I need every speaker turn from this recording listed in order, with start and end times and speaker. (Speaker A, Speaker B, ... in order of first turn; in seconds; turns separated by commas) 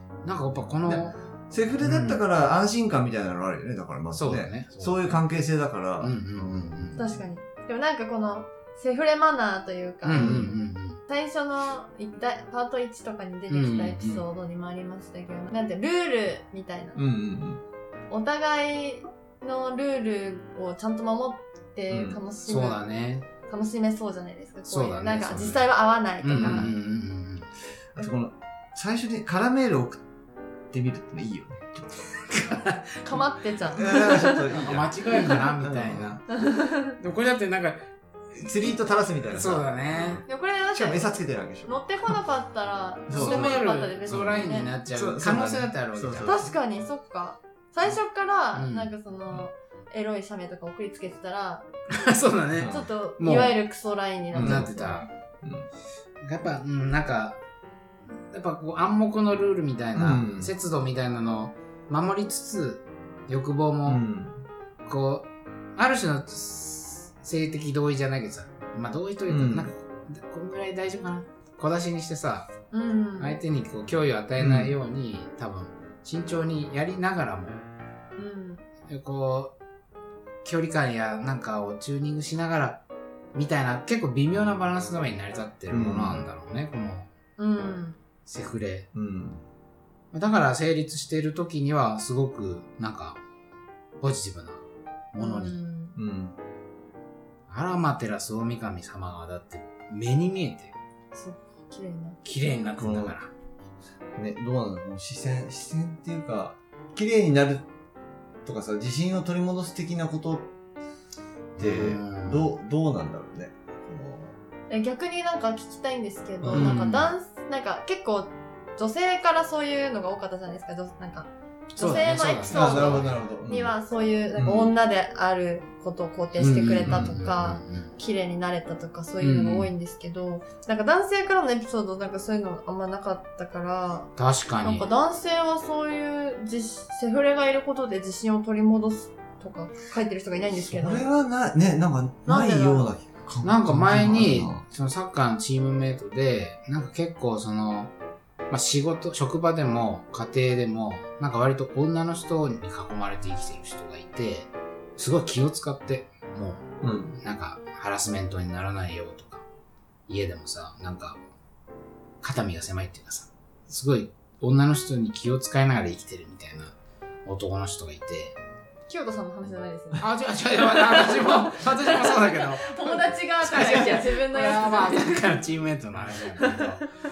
Speaker A: 0.2-1.1, Speaker B: 0.9-7.0, Speaker A: 1.8-2.2, Speaker A: 4.1-5.2, Speaker A: 6.0-7.0, Speaker C: 7.0-10.3, Speaker A: 10.0-11.0, Speaker B: 10.2-10.6, Speaker C: 11.1-17.0, Speaker A: 13.5-14.2, Speaker B: 16.9-17.6, Speaker C: 18.1-22.8, Speaker B: 21.9-22.2, Speaker A: 22.5-23.3, Speaker C: 23.5-26.7, Speaker A: 24.7-25.7, Speaker A: 26.2-27.5, Speaker B: 26.4-26.7, Speaker B: 28.0-30.0, Speaker B: 30.7-31.9, Speaker A: 32.3-33.0, Speaker C: 33.0-34.6, Speaker B: 33.7-34.9, Speaker A: 34.0-36.4, Speaker B: 35.6-36.2, Speaker C: 36.4-36.9, Speaker A: 37.0-40.2, Speaker B: 38.4-41.8, Speaker C: 40.3-44.7, Speaker B: 43.1-46.6, Speaker A: 43.1-46.4, Speaker C: 46.2-51.7, Speaker A: 48.5-48.9, Speaker A: 51.9-53.6, Speaker B: 52.5-52.9, Speaker C: 52.7-55.0, Speaker B: 54.3-54.7, Speaker A: 54.4-55.1, Speaker B: 55.4-55.7, Speaker A: 56.2-57.4, Speaker A: 58.2-64.0, Speaker B: 60.0-60.5, Speaker B: 63.9-64.4, Speaker A: 64.8-72.5, Speaker B: 69.3-69.7, Speaker C: 72.7-73.4, Speaker A: 73.2-77.6, Speaker B: 74.4-74.8, Speaker C: 78.2-78.7, Speaker A: 78.9-79.5, Speaker A: 80.4-82.8, Speaker A: 83.3-87.1, Speaker B: 85.7-86.3, Speaker C: 87.4-88.0, Speaker A: 88.3-88.9, Speaker B: 88.9-89.4, Speaker A: 90.1-93.2, Speaker A: 94.0-94.6, Speaker A: 95.1-95.6, Speaker C: 95.2-96.0, Speaker B: 96.0-96.4, Speaker A: 97.5-100.7, Speaker C: 101.1-102.2, Speaker A: 102.2-103.3, Speaker B: 102.8-103.2, Speaker B: 104.2-107.7, Speaker B: 108.5-110.5, Speaker A: 111.6-112.5, Speaker B: 111.6-114.4, Speaker C: 114.7-141.1, Speaker B: 116.4-116.7, Speaker A: 116.5-117.1, Speaker A: 121.8-123.2, Speaker B: 122.5-123.7, Speaker B: 124.4-124.7, Speaker A: 126.4-127.9, Speaker A: 129.2-129.7, Speaker A: 134.2-134.9, Speaker B: 140.6-144.6, Speaker C: 142.3-142.9, Speaker A: 143.4-147.9, Speaker A: 148.5-159.4, Speaker B: 156.8-157.2, Speaker A: 160.1-161.2, Speaker A: 162.2-166.7, Speaker A: 167.2-168.4, Speaker C: 168.9-170.1, Speaker A: 170.0-176.8, Speaker C: 170.6-175.3, Speaker C: 176.4-176.8